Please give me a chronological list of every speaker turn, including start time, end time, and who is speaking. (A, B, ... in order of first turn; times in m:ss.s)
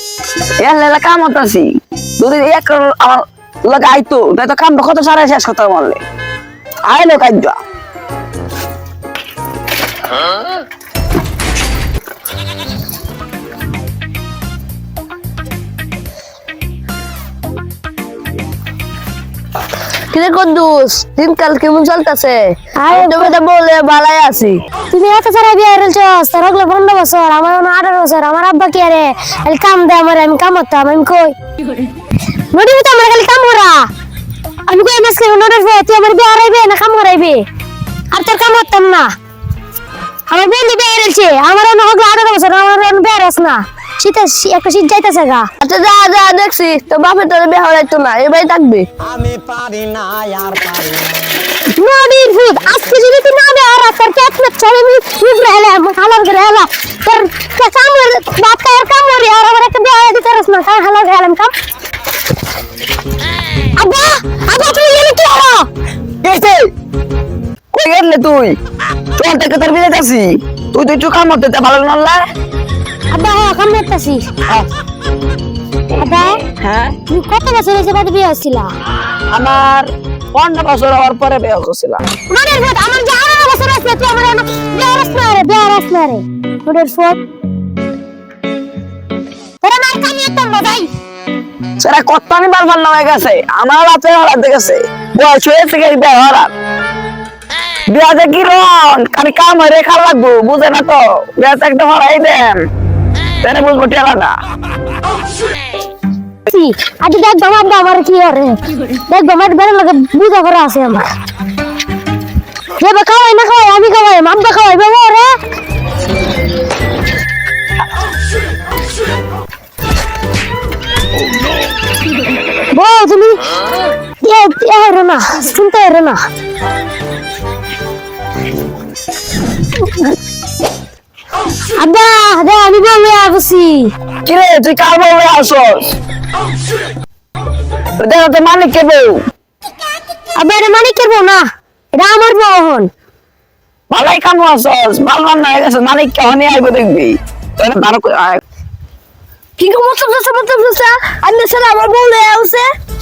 0:00.6-0:06.0 A
0:06.9-0:07.6 A
0:20.1-0:24.6 B
0:22.8-0:23.3 C
0:24.9-0:31.4 C
0:32.5-0:33.9 C
0:34.7-0:37.4 C
0:38.1-0:39.1 C
0:40.3-0:45.5 C
0:45.6-0:48.9 B
0:49.1-0:51.1 D
0:51.7-1:01.5 C
1:03.8-1:05.7 C
1:06.2-1:06.7 A
1:07.7-1:08.6 A
1:09.2-1:12.2 A
1:13.1-1:14.2 C
1:16.0-1:16.4 C
1:16.6-1:16.9 A
1:17.1-1:18.7 C
1:19.3-1:22.0 A
1:22.3-1:27.2 C
1:29.6-1:30.9 C
1:31.8-1:36.5 A
1:37.9-1:42.6 A
1:43.4-1:44.3 A
1:46.5-1:51.1 C
1:52.8-1:55.3 C
2:02.7-2:03.5 C
2:04.2-2:06.2 C
2:11.8-2:13.9 C
2:14.2-2:15.8 A
2:18.0-2:19.2 A
2:20.4-2:22.9 C
2:23.9-2:28.4 A
2:29.6-2:32.7 B